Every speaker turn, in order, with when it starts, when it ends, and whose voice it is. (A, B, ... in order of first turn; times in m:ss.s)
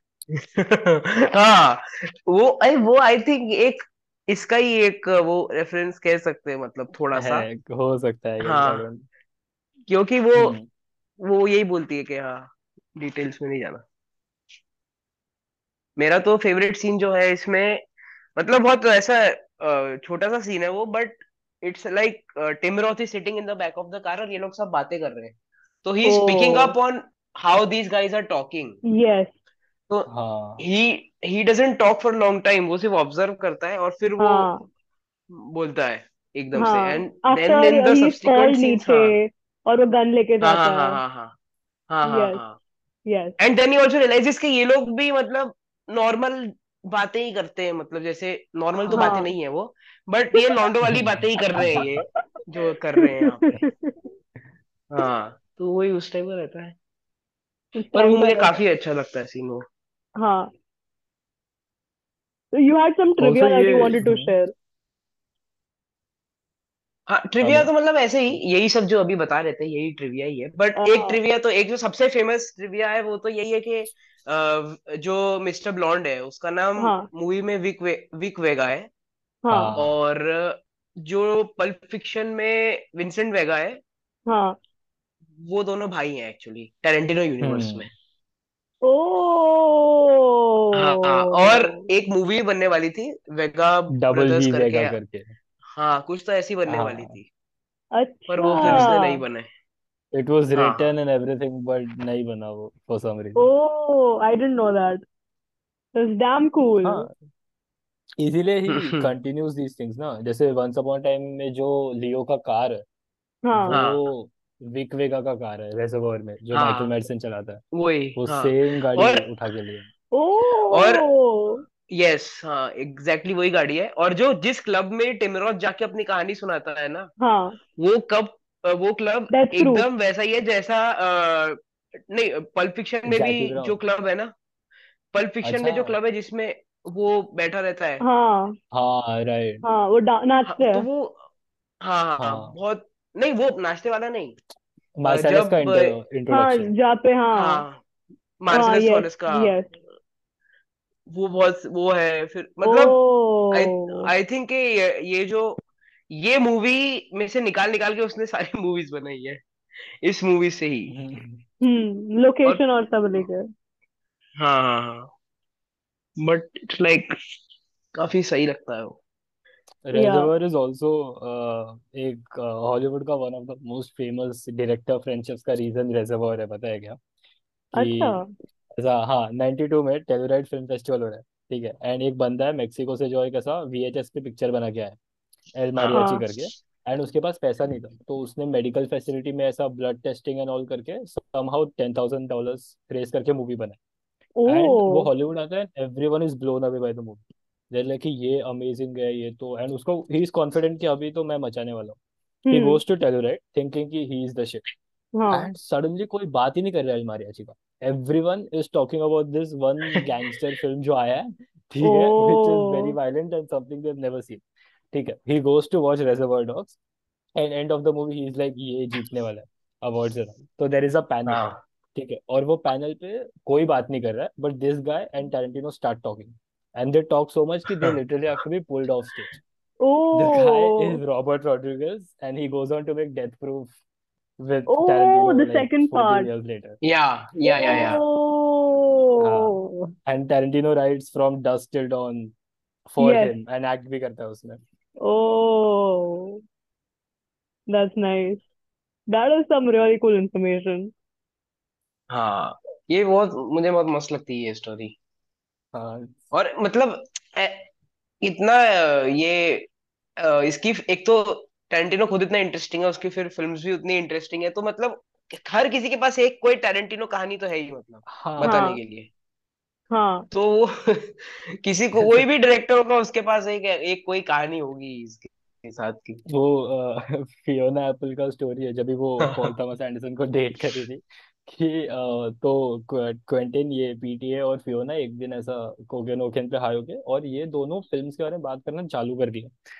0:00.3-0:07.4 A
0:07.1-0:09.0 B
0:08.4-0:08.8 A
0:09.9-0:10.6 A
0:10.4-0:10.7 B
0:11.2-0:13.8 A
0:16.0-0:17.8 A
0:18.4-0:28.8 A
0:26.0-0:26.7 C
0:28.9-0:29.3 C
0:29.9-0:34.5 A
0:30.1-0:30.6 B
0:34.2-0:34.6 C
0:35.3-0:39.2 A
0:36.5-0:41.0 C
0:40.4-0:41.3 A
0:41.9-0:42.6 A
0:42.0-0:42.4 C
0:43.1-0:43.4 C
0:43.4-0:53.5 A
0:48.8-0:49.1 B
0:48.9-0:49.3 C
0:50.9-0:51.9 B
0:53.0-0:54.0 C
0:54.9-0:56.7 A
0:57.7-0:58.5 C
0:57.9-0:59.6 A
1:00.2-1:00.5 C
1:02.5-1:04.5 C
1:03.2-1:04.3 B
1:07.1-1:18.9 A
1:07.4-1:07.7 B
1:10.8-1:11.2 C
1:16.8-1:17.1 C
1:19.4-1:19.8 C
1:19.5-1:19.9 B
1:19.8-1:23.8 A
1:24.3-1:24.6 C
1:25.4-1:27.9 A
1:27.4-1:27.9 B
1:28.8-1:31.8 C
1:30.7-1:35.0 A
1:33.9-1:35.3 B
1:35.7-1:37.2 A
1:36.7-1:37.1 B
1:37.9-1:39.2 C
1:38.3-1:39.5 A
1:38.6-1:38.9 B
1:40.1-1:43.5 B
1:40.5-1:40.9 A
1:43.4-1:45.0 C
1:45.9-1:47.1 C
1:46.8-1:47.1 B
1:48.2-1:52.8 B
1:48.7-1:49.1 A
1:53.4-1:53.8 C
1:53.5-1:57.6 B
1:53.7-1:54.0 A
1:56.5-1:56.9 A
1:57.7-1:59.3 A
1:58.2-1:59.9 B
2:00.1-2:01.6 C
2:00.7-2:01.0 A
2:01.9-2:07.1 A
2:07.2-2:07.6 C
2:07.8-2:11.6 A
2:09.3-2:09.8 C
2:12.1-2:14.3 A
2:13.0-2:13.8 B
2:15.1-2:18.0 A
2:15.4-2:16.0 B
2:18.0-2:18.6 C
2:18.7-2:19.6 B
2:19.6-2:20.8 C
2:20.4-2:21.2 A
2:21.8-2:24.4 A
2:22.2-2:22.5 B
2:25.0-2:26.7 B
2:25.0-2:25.9 A
2:26.3-2:27.6 C
2:27.3-2:27.8 A
2:28.4-2:29.5 A
2:28.5-2:29.7 C
2:31.1-2:33.0 A
2:32.6-2:34.0 C
2:33.5-2:39.4 A
2:40.0-2:40.9 A
2:40.9-2:41.4 B
2:41.6-2:43.5 C
2:44.4-2:45.1 A
2:46.2-2:47.1 A
2:47.9-2:49.0 A
2:49.8-2:57.0 B
2:49.9-2:50.3 C
2:57.7-2:58.2 B
2:57.7-2:58.3 C
2:58.8-3:05.0 B
3:05.5-3:13.8 B
3:05.8-3:06.1 A
3:05.9-3:06.2 C
3:14.4-3:15.1 C
3:14.5-3:22.0 B
3:22.4-3:22.8 C
3:22.5-3:24.6 B
3:25.1-3:25.5 C
3:25.3-3:36.8 B
3:31.8-3:33.0 C
3:37.4-3:41.4 B
3:41.3-3:41.6 A
3:41.9-3:49.4 B
3:49.8-3:51.0 C
3:50.1-3:53.7 B
3:54.4-3:56.8 B
3:54.7-3:56.3 C
3:56.8-3:58.0 A
3:57.4-3:59.9 C
3:57.6-3:58.0 B
3:59.2-4:02.3 B
4:02.9-4:04.6 B
4:03.0-4:03.3 C
4:05.0-4:06.4 C
4:07.7-4:08.4 C
4:09.1-4:10.9 C
4:12.1-4:15.0 A
4:15.7-4:16.2 B
4:16.3-4:17.7 A
4:18.2-4:29.1 A
4:28.1-4:28.7 B
4:28.4-4:28.8 C
4:29.9-4:30.2 C
4:30.3-4:36.2 A
4:32.0-4:32.2 B
4:36.3-4:49.5 B
4:39.2-4:39.5 A